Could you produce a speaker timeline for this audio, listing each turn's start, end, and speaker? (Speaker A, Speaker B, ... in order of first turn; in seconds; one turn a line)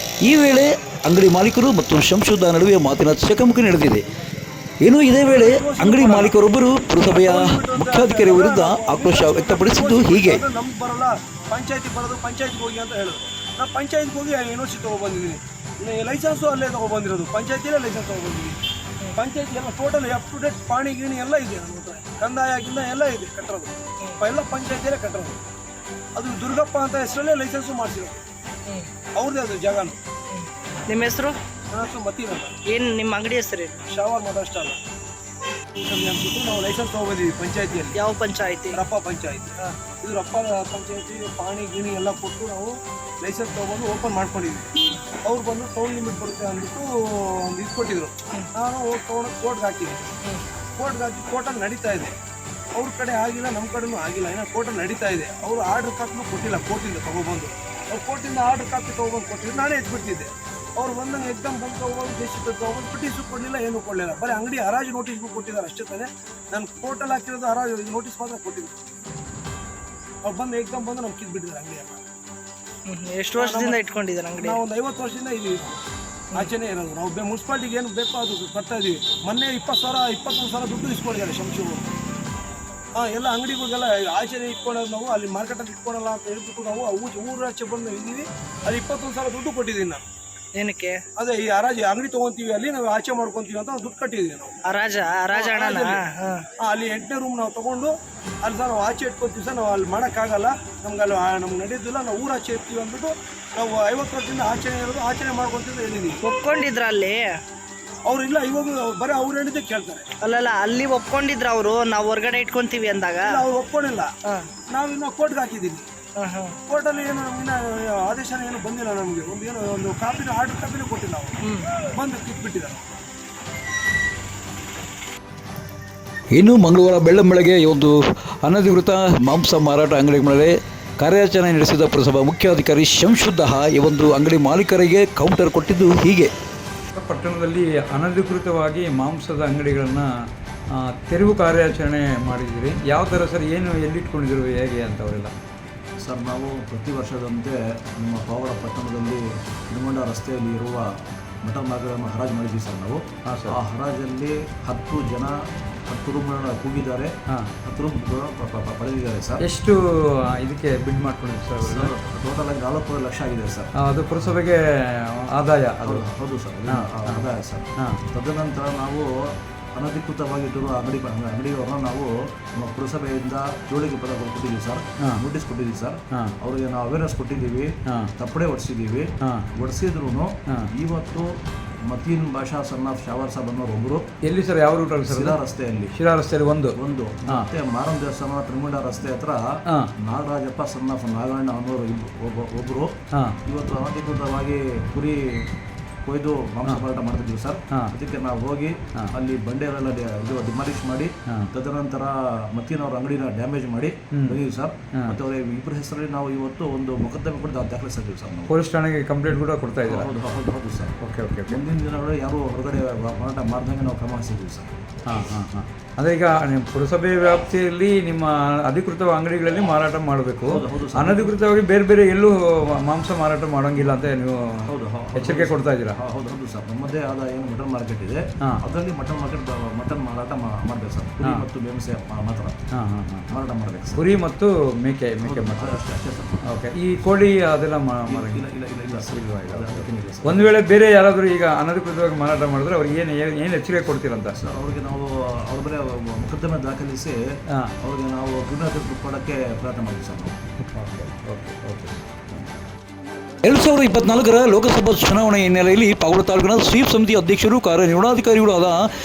Speaker A: 0.2-4.0
Speaker A: 4.8-10.4
Speaker B: 5.2-6.3
Speaker B: 7.0-18.6
Speaker B: 19.1-25.4
Speaker B: 26.1-28.2
Speaker B: 29.1-30.0
Speaker C: 30.3-31.4
Speaker B: 31.7-32.6
Speaker C: 32.7-33.8
Speaker B: 33.9-34.8
Speaker B: 35.8-38.0
Speaker C: 38.0-38.8
Speaker B: 38.7-44.7
Speaker B: 45.2-50.1
Speaker B: 50.8-52.1
Speaker B: 52.7-68.8
Speaker B: 70.2-72.0
Speaker C: 72.9-74.6
Speaker B: 73.4-73.8
Speaker B: 74.4-75.8
Speaker B: 76.3-81.9
Speaker B: 83.0-90.0
Speaker C: 90.6-91.0
Speaker B: 91.2-94.6
Speaker C: 94.7-96.4
Speaker B: 95.3-96.0
Speaker B: 96.6-106.2
Speaker C: 106.2-107.3
Speaker B: 108.0-110.1
Speaker C: 110.2-113.4
Speaker B: 113.2-114.1
Speaker B: 114.7-115.9
Speaker C: 116.2-116.6
Speaker B: 116.7-121.3
Speaker C: 121.4-121.7
Speaker B: 121.9-122.8
Speaker A: 126.3-136.3
Speaker D: 136.9-140.1
Speaker D: 140.8-145.3
Speaker E: 146.0-155.4
Speaker D: 153.2-153.6
Speaker E: 155.9-157.1
Speaker E: 157.6-159.4
Speaker D: 159.4-159.8
Speaker D: 160.3-161.9
Speaker E: 161.6-163.7
Speaker D: 163.8-164.6
Speaker D: 165.3-166.0
Speaker E: 165.8-169.1
Speaker D: 166.7-167.3
Speaker E: 169.8-181.3
Speaker E: 181.9-184.0
Speaker D: 184.2-185.4
Speaker E: 185.1-185.9
Speaker D: 185.9-187.5
Speaker E: 186.8-189.4
Speaker E: 190.0-192.9
Speaker E: 193.5-195.5
Speaker E: 196.0-208.6
Speaker D: 204.1-204.4
Speaker D: 208.5-210.1
Speaker E: 209.8-210.9
Speaker D: 211.0-211.6
Speaker E: 211.5-214.8
Speaker D: 215.1-226.0
Speaker E: 220.4-221.3
Speaker E: 224.7-232.6
Speaker D: 232.7-233.3
Speaker E: 233.3-234.1
Speaker D: 234.0-235.8
Speaker E: 235.2-236.4
Speaker D: 236.5-238.4
Speaker E: 238.1-240.5
Speaker D: 239.0-244.4
Speaker E: 244.3-247.2
Speaker E: 247.8-250.3
Speaker D: 250.7-252.5
Speaker A: 253.4-258.8